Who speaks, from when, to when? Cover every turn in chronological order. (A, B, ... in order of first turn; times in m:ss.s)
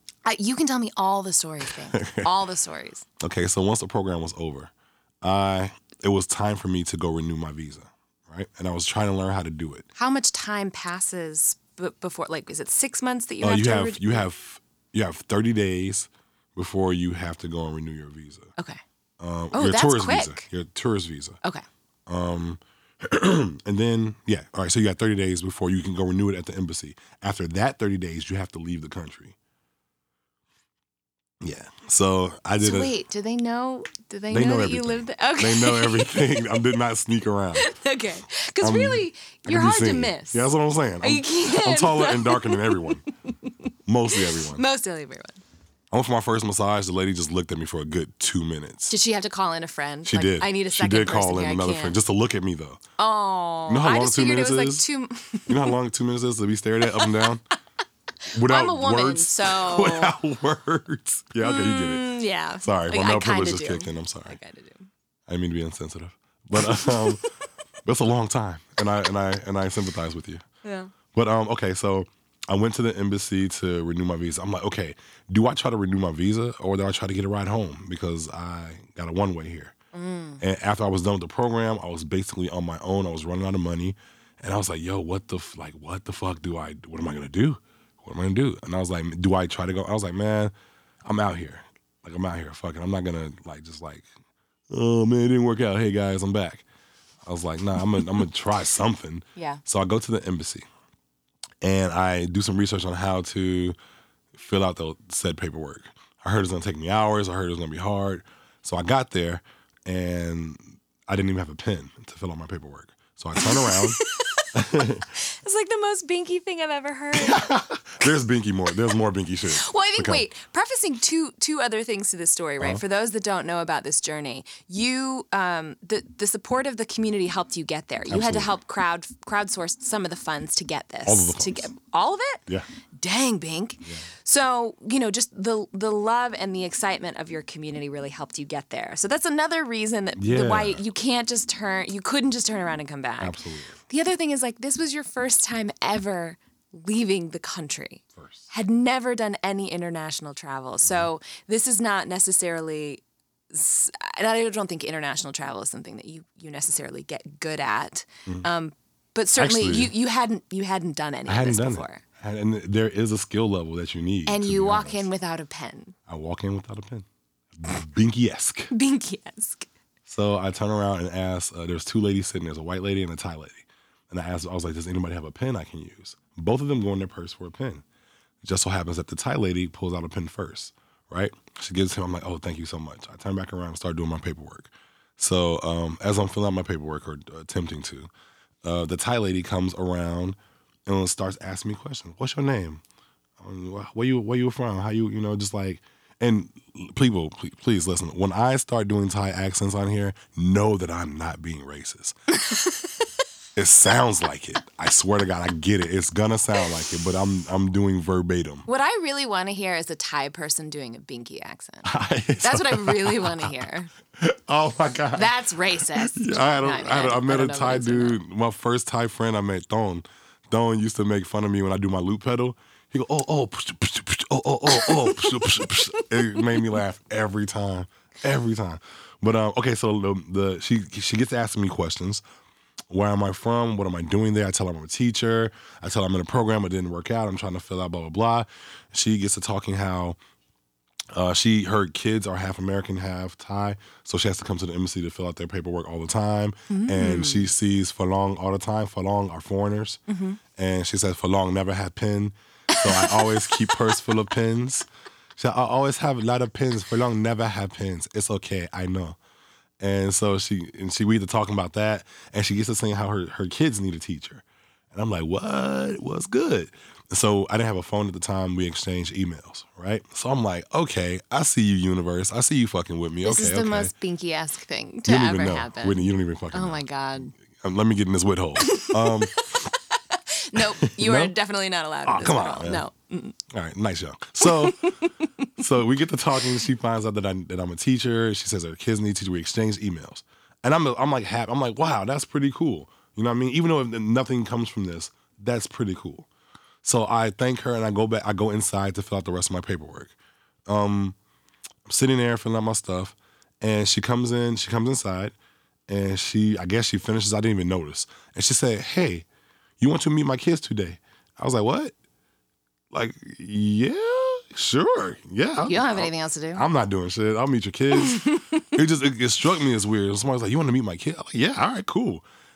0:00.2-0:03.0 A
0:01.6-0:02.3 B
0:03.2-0:09.9 B
0:10.0-0:14.2 A
0:13.4-0:18.5 B
0:18.6-0:18.8 A
0:19.2-0:21.4 B
0:19.5-0:20.4 A
0:22.1-0:29.4 B
0:31.4-0:32.9 B
0:32.6-0:36.8 A
0:34.3-0:37.7 B
0:37.6-0:45.4 A
0:38.6-0:43.0 B
0:43.9-0:44.6 B
0:45.9-0:48.9 B
0:48.9-0:52.0 A
0:50.0-0:52.8 B
0:53.0-0:55.8 A
0:53.7-0:54.8 B
0:55.5-0:57.4 B
0:56.9-0:57.2 A
0:58.3-1:00.1 A
0:58.3-1:04.4 B
1:01.4-1:04.9 A
1:05.3-1:07.3 B
1:06.7-1:07.2 A
1:07.8-1:10.4 B
1:10.6-1:10.9 A
1:11.1-1:19.7 B
1:19.9-1:20.4 A
1:20.4-1:30.5 B
1:31.0-1:34.1 B
1:34.7-1:36.6 B
1:37.2-1:40.7 B
1:39.4-1:39.6 A
1:41.6-1:43.8 B
1:44.3-1:54.0 B
1:53.4-1:57.6 A
1:54.5-1:55.1 B
1:57.2-2:00.2 B
1:59.6-2:42.0 A
2:08.1-2:08.6 B
2:11.1-2:11.7 B
2:20.2-2:20.8 B
2:23.2-2:23.8 B
2:28.2-2:28.4 B
2:39.4-2:39.9 B
2:41.3-2:45.1 B
2:44.3-2:46.0 A
2:46.1-2:48.7 B
2:48.7-2:49.7 A
2:50.1-2:57.8 B
2:58.4-3:08.1 B
3:08.6-3:12.8 B
3:13.4-3:22.2 B
3:22.4-3:23.0 A
3:23.6-3:28.7 B
3:28.7-3:33.9 A
3:31.8-3:33.6 B
3:34.2-3:35.3 B
3:35.1-3:38.2 A
3:36.0-3:52.2 B
3:44.7-3:46.5 A
3:52.9-4:00.2 B
4:01.1-4:10.0 B
4:06.7-4:07.5 A
4:10.1-4:10.4 A
4:10.5-4:19.2 B
4:12.7-4:13.8 A
4:19.8-4:33.9 B
4:33.2-4:37.3 A
4:35.0-4:39.7 B
4:38.6-4:43.4 A
4:40.6-4:41.3 B
4:42.0-4:42.8 B
4:43.5-4:44.9 B
4:44.4-4:45.0 A
4:45.6-4:56.3 B
4:56.8-5:00.2 B
5:00.7-5:01.2 B
5:01.9-5:05.4 B
5:05.9-5:09.3 B
5:09.8-5:11.9 B
5:12.9-5:22.2 B
5:15.6-5:16.6 A
5:18.0-5:18.7 A